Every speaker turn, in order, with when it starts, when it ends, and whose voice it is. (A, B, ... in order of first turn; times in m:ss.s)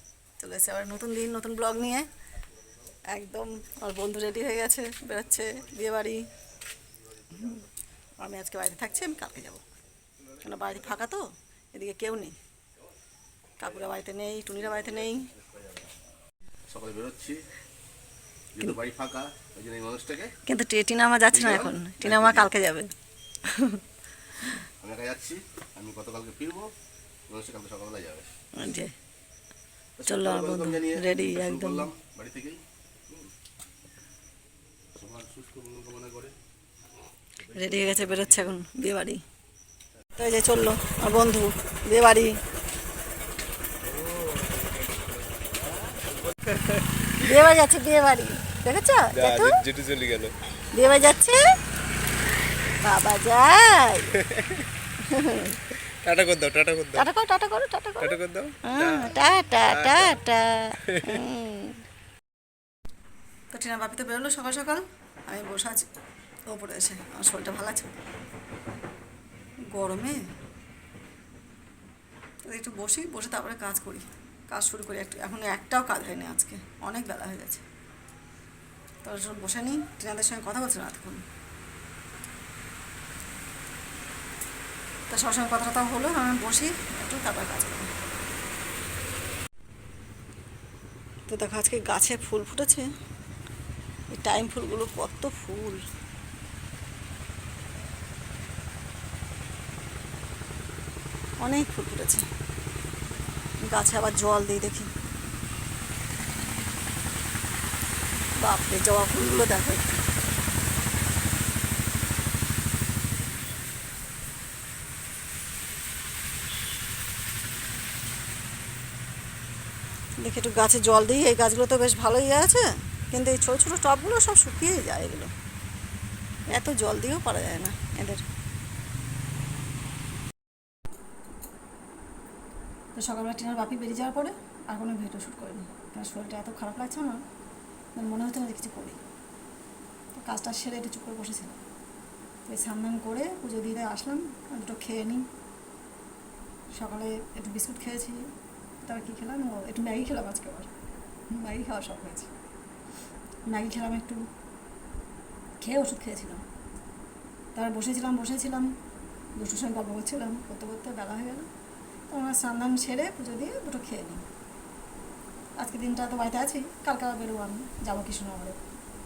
0:00.4-0:02.1 A
0:03.1-0:06.3 A
0:07.2-0:07.6 B
0:08.2-0:09.6 A
0:10.4-0:12.4 A
0:13.6-0:15.3 A
0:15.1-0:15.9 B
0:16.7-0:17.4 B
0:18.6-0:20.3 B
0:20.4-0:22.9 A
0:21.3-0:22.5 B
0:23.4-0:23.8 A
0:24.8-0:26.7 B
0:27.3-0:28.3 B
0:28.6-0:28.9 A
0:30.0-0:33.3 B
0:30.0-0:31.9 A
0:34.9-0:36.4 B
0:37.4-0:38.5 B
0:37.5-0:39.2 A
0:40.2-0:42.4 A
0:43.8-0:45.7 C
0:46.3-0:47.4 C
0:47.2-0:49.6 A
0:49.1-0:50.3 C
0:50.7-0:51.4 A
0:52.8-0:54.2 A
0:54.2-0:54.6 C
0:55.0-0:55.6 A
0:56.0-0:57.1 C
0:56.9-1:01.8 A
0:58.0-0:59.2 C
0:59.7-1:00.2 C
1:00.9-1:01.2 C
1:03.5-1:05.9 A
1:06.5-1:08.0 A
1:09.7-1:10.2 A
1:12.4-1:17.6 A
1:19.0-1:21.2 A
1:25.1-1:27.9 A
1:31.3-1:32.9 A
1:34.1-1:35.8 A
1:41.4-1:42.2 A
1:43.6-1:44.9 A
1:48.4-1:49.9 A
2:00.2-2:05.3 A
2:06.5-2:08.2 A
2:12.9-2:17.2 A
2:17.9-2:19.0 A
2:20.1-2:21.6 A
2:22.4-2:25.3 A
2:26.7-2:28.2 A
2:28.8-2:30.7 A
2:31.3-2:32.3 A
2:33.5-2:34.2 A
2:35.6-2:36.4 A
2:37.5-2:38.7 A
2:39.4-2:41.5 A
2:42.1-2:44.2 A
2:45.6-2:48.6 A